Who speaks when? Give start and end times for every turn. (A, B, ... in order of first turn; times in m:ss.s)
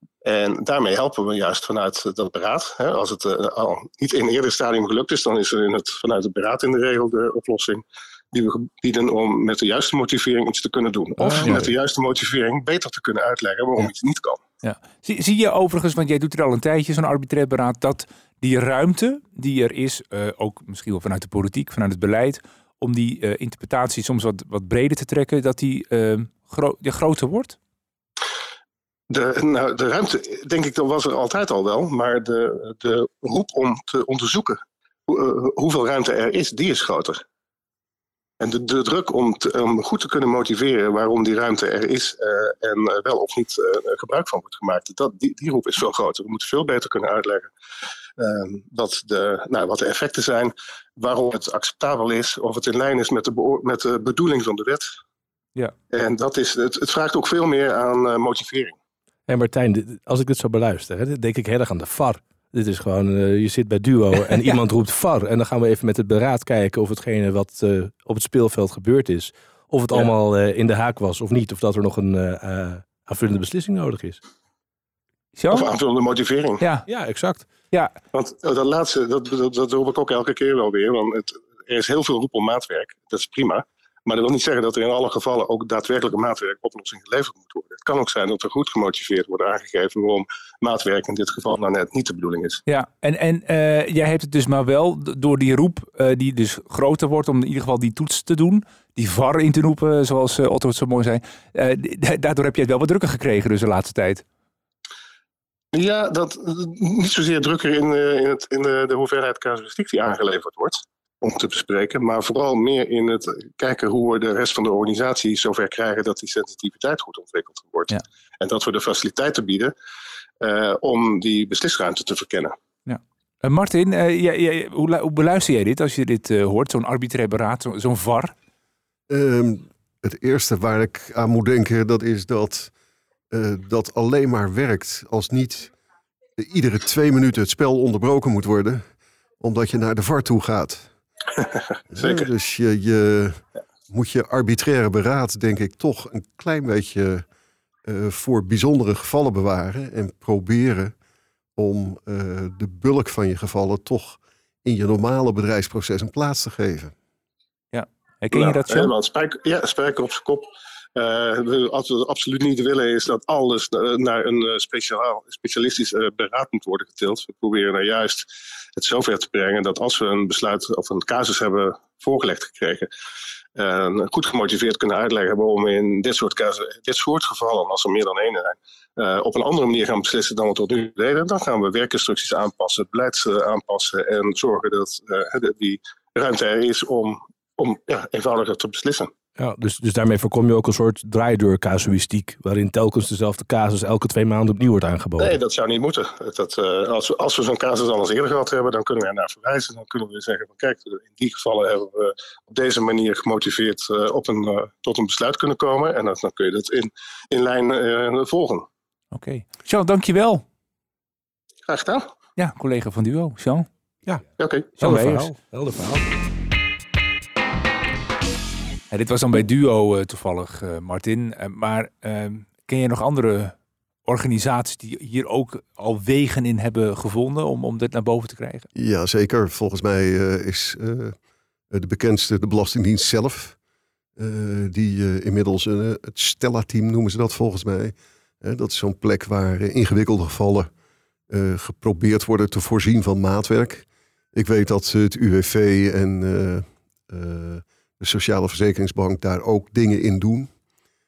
0:00.2-0:14.4 A
0:11.2-0:11.7 B
0:11.4-0:11.6 C
0:14.6-0:27.6 C
0:29.1-0:37.2 A
0:38.4-0:47.5 A
0:48.2-0:54.8 A
0:55.9-0:58.7 A
0:59.3-1:14.2 B
1:15.4-1:15.7 C
1:15.5-1:16.6 A
1:16.6-1:16.9 C
1:16.9-1:17.4 B
1:17.4-1:17.9 C
1:18.1-1:32.6 A
1:32.7-1:44.2 C
1:45.7-1:59.7 A
2:00.4-2:02.6 A
2:02.8-2:08.3 C
2:09.1-2:12.7 D
2:13.3-2:15.7 D
2:16.4-2:18.8 D
2:19.4-2:20.9 D
2:21.4-2:22.3 A
2:21.9-2:27.2 D
2:27.8-2:30.9 D
2:31.6-2:36.9 D
2:37.7-2:38.9 C
2:38.3-2:52.9 A
2:53.6-3:09.1 A
3:09.4-3:15.4 B
3:15.2-3:28.7 A
3:29.1-3:30.4 C
3:31.6-3:32.1 A
3:32.4-3:33.7 C
3:34.4-3:34.7 A
3:34.8-3:35.3 C
3:34.8-3:36.1 B
3:38.9-3:48.7 C
3:48.7-3:51.2 D
3:51.7-3:53.6 D
3:54.2-4:00.7 D
4:01.3-4:10.5 D